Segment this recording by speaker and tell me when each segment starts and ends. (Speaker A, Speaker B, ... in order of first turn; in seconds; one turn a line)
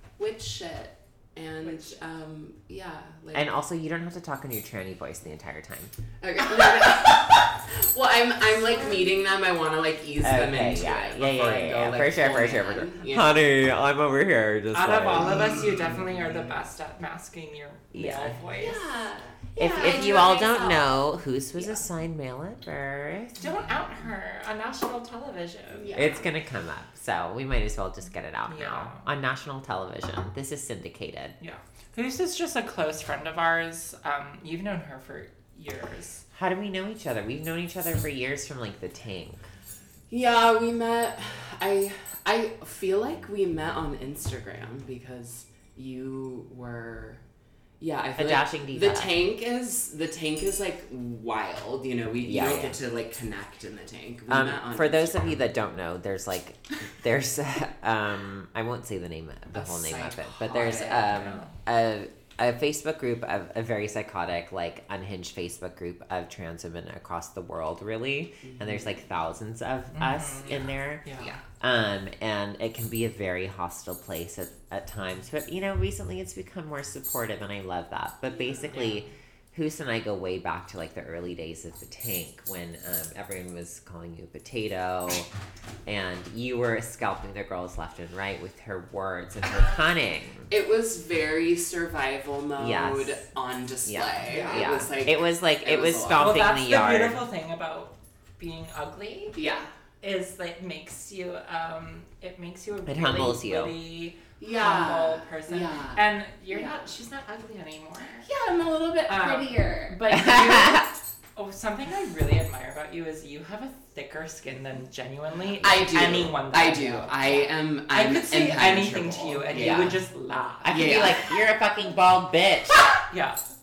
Speaker A: 0.2-3.5
Speaker B: 3.3-5.9
Speaker A: 6.2-13.4
Speaker B: 10.2-15.5
Speaker C: 14.7-18.8
Speaker A: 15.2-16.5
Speaker B: 17.9-18.4
Speaker A: 18.6-20.9
Speaker B: 19.6-23.5
Speaker C: 19.6-20.6
Speaker C: 23.4-26.0
Speaker A: 25.7-26.3
Speaker B: 25.9-31.4
Speaker C: 28.5-29.1
Speaker C: 31.4-36.2
Speaker B: 36.3-39.5
Speaker A: 40.1-47.2
Speaker A: 47.8-55.4
Speaker B: 48.1-49.2
Speaker B: 52.2-52.8
Speaker B: 54.3-71.0
Speaker A: 59.5-61.4
Speaker C: 61.1-61.5
Speaker A: 68.4-68.9
Speaker C: 69.9-71.4
Speaker B: 71.6-85.3
Speaker C: 78.6-79.1
Speaker B: 85.8-90.5
Speaker A: 90.5-96.4
Speaker B: 92.6-93.2
Speaker B: 93.8-97.3
Speaker C: 94.2-94.6
Speaker C: 96.2-99.4
Speaker A: 99.3-99.7
Speaker C: 100.0-108.3
Speaker B: 102.8-103.7
Speaker A: 104.4-106.9
Speaker A: 108.2-110.0
Speaker C: 109.1-121.0
Speaker B: 110.1-110.8
Speaker A: 115.6-120.0
Speaker B: 119.5-120.0
Speaker B: 120.6-122.8
Speaker A: 120.7-121.3
Speaker C: 123.1-123.4